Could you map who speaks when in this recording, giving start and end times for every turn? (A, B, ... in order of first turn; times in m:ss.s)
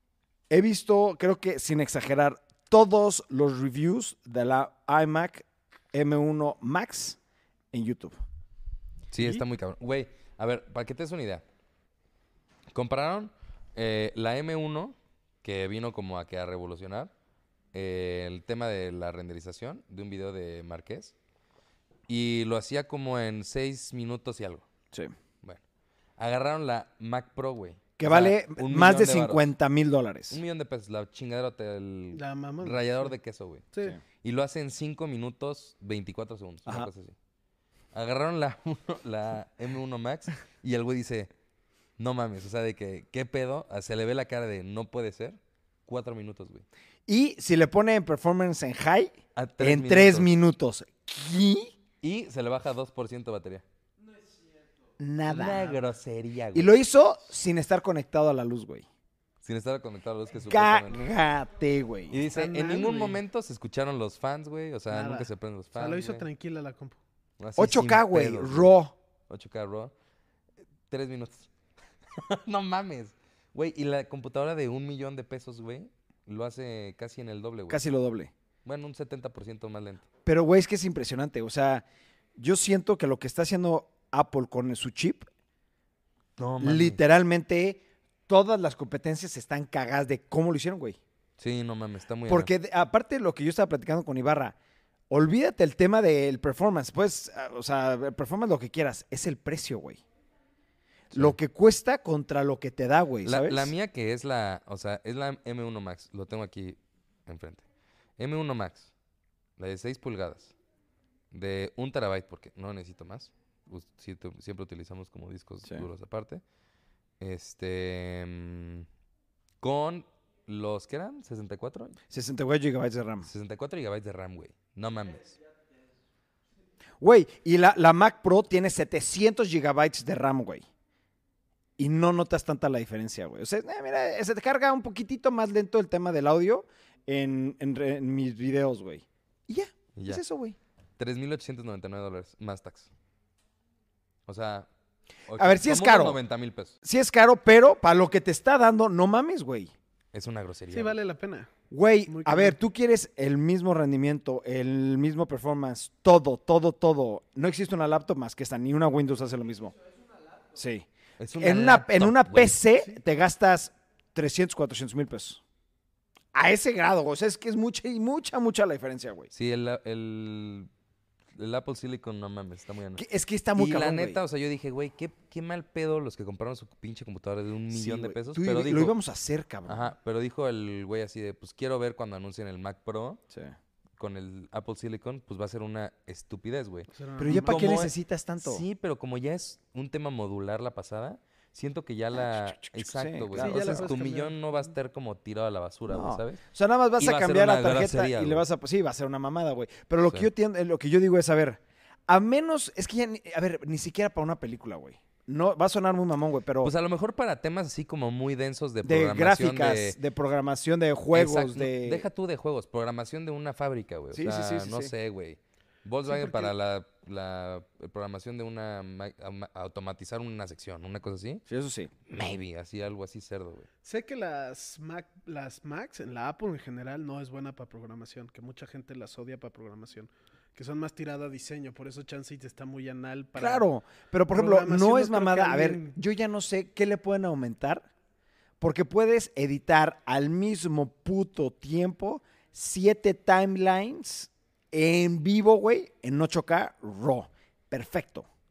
0:00.5-0:07.2 A
0:07.7-0:08.1 A
0:09.1-0:11.4 B
0:09.2-0:09.4 C
0:12.7-0:17.1 B
0:17.7-0:21.1 B
0:22.1-0:24.7 B
0:26.2-0:29.5 B
0:28.0-0:30.4 A
0:30.3-0:33.7 B
0:32.1-0:33.1 C
0:33.7-0:34.0 C
0:34.2-0:37.1 B
0:37.9-0:41.3 B
0:42.0-0:46.6 B
0:47.1-0:51.8 A
0:49.4-0:50.3 B
0:52.0-0:53.6 B
0:55.0-0:55.8 A
0:55.3-0:56.8 B
0:56.5-0:58.9 A
0:59.4-1:01.0 B
1:00.4-1:02.2 A
1:02.1-1:06.3 B
1:02.3-1:03.2 C
1:04.9-1:07.0 C
1:07.4-1:08.7 B
1:07.6-1:08.9 A
1:09.3-1:09.9 B
1:10.9-1:11.5 B
1:12.1-1:17.8 B
1:17.7-1:18.3 A
1:18.6-1:20.0 B
1:20.3-1:21.8 A
1:22.4-1:25.3 A
1:26.4-1:27.0 B
1:26.6-1:31.0 A
1:31.4-1:32.5 B
1:32.3-1:34.6 A
1:35.1-1:40.0 A
1:41.1-1:43.7 A
1:43.2-1:47.6 B
1:48.2-1:48.9 B
1:49.6-1:50.5 B
1:51.3-1:56.4 B
1:57.2-1:58.9 B
1:59.6-2:02.0 B
2:02.1-2:03.3 A
2:03.3-2:05.4 B
2:07.0-2:10.6 A
2:11.8-2:20.6 A
2:20.0-2:20.2 B
2:21.0-2:22.9 B
2:24.3-2:24.7 B
2:25.3-2:26.8 B
2:25.4-2:26.2 A
2:26.8-2:29.7 A
2:30.1-2:31.0 B
2:30.7-2:31.5 C
2:31.7-2:39.8 A
2:32.1-2:32.6 C
2:40.5-2:45.4 A
2:41.2-2:42.6 B
2:46.3-2:49.3 A
2:49.3-2:50.7 B
2:51.4-2:59.0 B
2:53.0-2:54.2 A
2:57.7-2:59.9 A
2:59.7-3:03.2 B
3:04.0-3:16.4 B
3:06.9-3:07.8 C
3:07.2-3:08.6 A
3:12.1-3:14.0 A
3:13.4-3:14.3 C
3:15.9-3:26.7 A
3:17.0-3:18.4 B
3:26.6-3:30.0 B
3:28.8-3:32.1 A
3:31.1-3:41.4 B
3:34.1-3:34.9 A
3:36.1-3:36.5 C
3:41.5-3:41.9 A
3:42.1-3:43.7 B
3:43.8-3:53.7 C
3:53.4-3:57.9 A
3:54.3-3:56.0 C
3:58.6-4:08.3 A